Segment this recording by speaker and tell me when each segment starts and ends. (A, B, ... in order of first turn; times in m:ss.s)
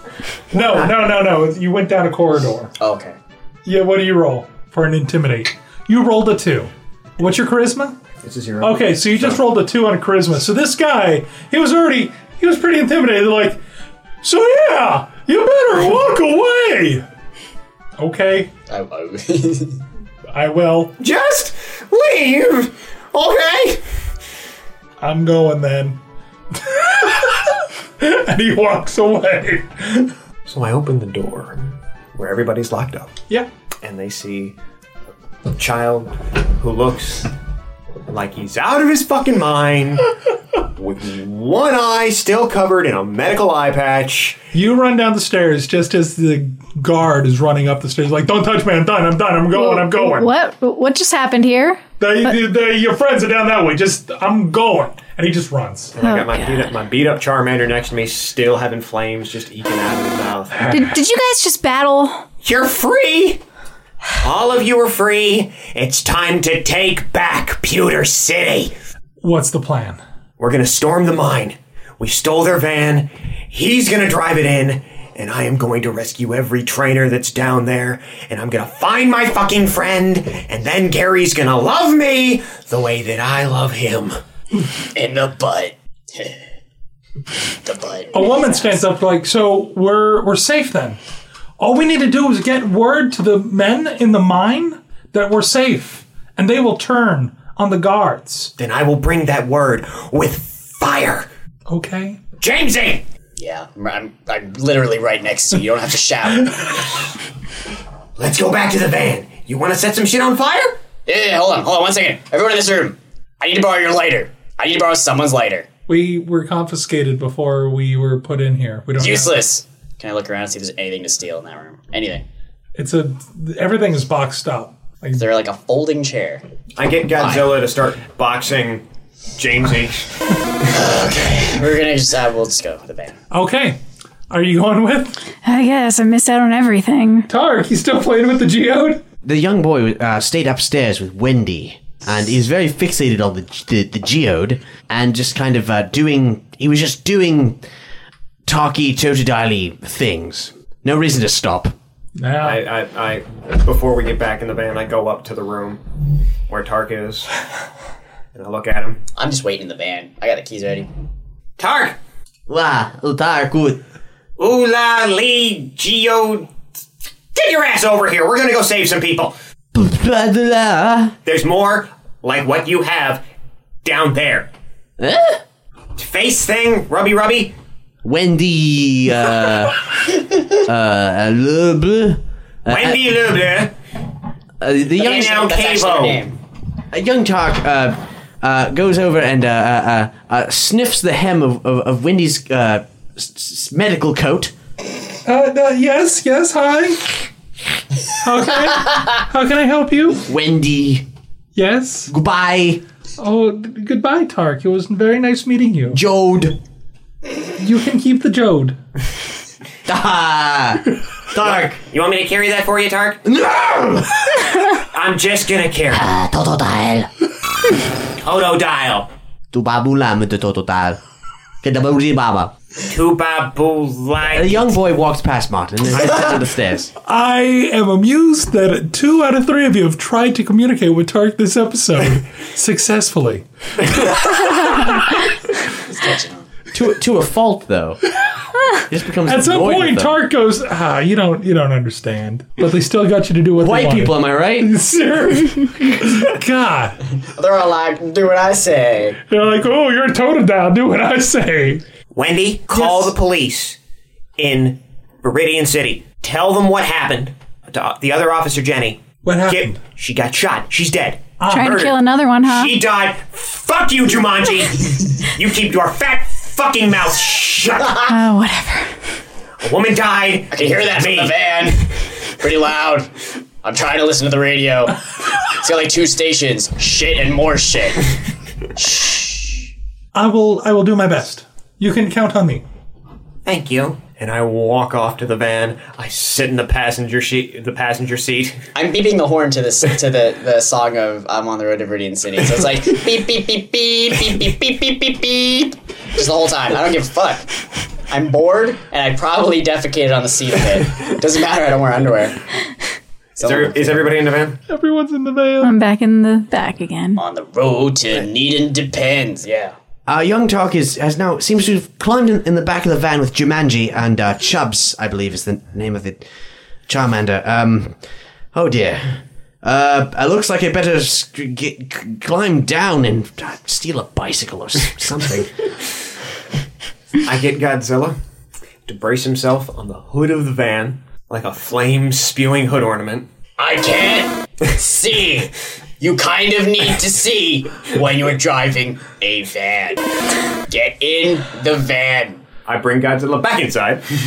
0:00.5-0:02.7 A
0:02.8-0:03.2 B
0:03.6-0:08.0 A
0:08.2-0:09.4 C
0:08.6-0:13.6 A
0:14.2-0:17.0 A
0:18.0-0:18.5 A
0:18.7-0:19.8 B
0:20.3-0:20.9 A
0:21.0-0:23.8 C
0:25.0-0:26.0 A
0:26.6-0:27.5 A
0:28.0-0:30.1 A
0:30.5-0:33.1 C
0:33.8-0:34.6 C
0:35.5-0:37.3 C
0:38.1-0:40.1 C
0:40.7-0:44.4 C
0:44.5-0:50.3 A
0:49.5-0:52.4 D
0:52.0-0:55.9 A
0:55.9-1:00.7 C
0:56.0-0:56.5 D
1:00.6-1:00.9 A
1:00.7-1:02.2 D
1:02.4-1:03.4 C
1:04.2-1:08.7 C
1:09.2-1:10.0 A
1:10.4-1:24.2 C
1:24.9-1:26.4 B
1:27.6-1:28.8 B
1:28.1-1:31.0 A
1:31.6-1:38.5 A
1:38.6-1:41.3 C
1:41.7-1:42.2 A
1:42.4-1:43.0 C
1:43.4-1:46.9 B
1:48.2-1:50.8 C
1:51.1-1:55.7 B
1:55.9-1:59.4 A
1:59.0-2:02.2 B
2:02.8-2:05.3 A
2:05.2-2:06.4 B
2:06.8-2:08.8 C
2:07.2-2:07.6 B
2:09.4-2:10.1 C
2:10.7-2:13.2 B
2:13.3-2:13.8 A
2:14.3-2:15.2 A
2:15.4-2:17.3 D
2:17.3-2:19.0 A
2:19.2-2:27.6 E
2:28.4-2:31.7 E
2:32.2-2:32.7 A
2:32.4-2:35.8 C
2:36.5-2:37.3 C
2:38.3-2:39.0 C
2:39.2-2:40.9 B
2:41.6-2:42.0 C
2:42.5-2:43.8 E
2:44.4-2:46.5 C
2:47.3-2:49.3 C
2:49.7-2:51.2 E
2:51.2-2:53.2 C
2:53.8-2:54.5 C
2:55.0-2:55.4 E
2:56.0-2:57.5 C
2:58.0-2:59.9 E
3:00.5-3:03.2 E
3:02.7-3:03.7 C
3:04.6-3:05.4 E
3:05.0-3:06.4 B
3:05.0-3:06.3 C
3:06.9-3:14.5 E
3:15.3-3:17.3 A
3:18.2-3:20.2 A
3:20.3-3:21.0 E
3:21.6-3:22.1 A
3:22.1-3:22.8 E
3:23.2-3:26.0 A
3:25.9-3:26.6 E
3:27.6-3:28.8 A
3:29.9-3:31.8 E
3:31.4-3:33.2 C
3:33.3-3:34.2 E
3:34.8-3:36.1 C
3:35.9-3:37.1 E
3:38.2-3:39.1 C
3:39.5-3:41.0 E
3:41.6-3:42.5 E
3:42.9-3:44.7 C
3:44.2-3:46.9 E
3:47.0-3:53.4 A
3:55.7-3:56.5 B
3:56.7-3:58.0 E
3:58.9-4:00.2 E
3:59.2-4:07.0 A
4:03.6-4:04.7 E
4:07.4-4:09.2 B
4:09.3-4:11.8 A
4:12.1-4:13.8 C
4:12.8-4:13.1 A
4:14.4-4:28.2 C
4:19.2-4:19.8 A
4:21.4-4:21.9 A
4:21.5-4:22.8 D
4:28.1-4:29.0 D
4:29.6-4:31.4 C
4:30.5-4:31.9 B
4:32.4-4:38.2 B
4:38.8-4:39.7 B
4:40.2-4:42.6 A
4:43.4-4:48.6 C
4:48.8-4:57.6 B
4:58.1-5:02.4 B
5:03.4-5:04.2 B
5:03.4-5:04.6 C
5:04.7-5:05.8 A
5:05.6-5:07.2 D
5:07.2-5:09.8 B
5:10.1-5:16.2 E
5:16.9-5:18.0 E
5:18.5-5:25.4 E
5:25.0-5:25.5 C
5:27.2-5:28.2 C
5:28.9-5:33.3 C
5:33.6-5:40.0 B
5:40.7-5:42.4 B
5:42.6-5:44.1 C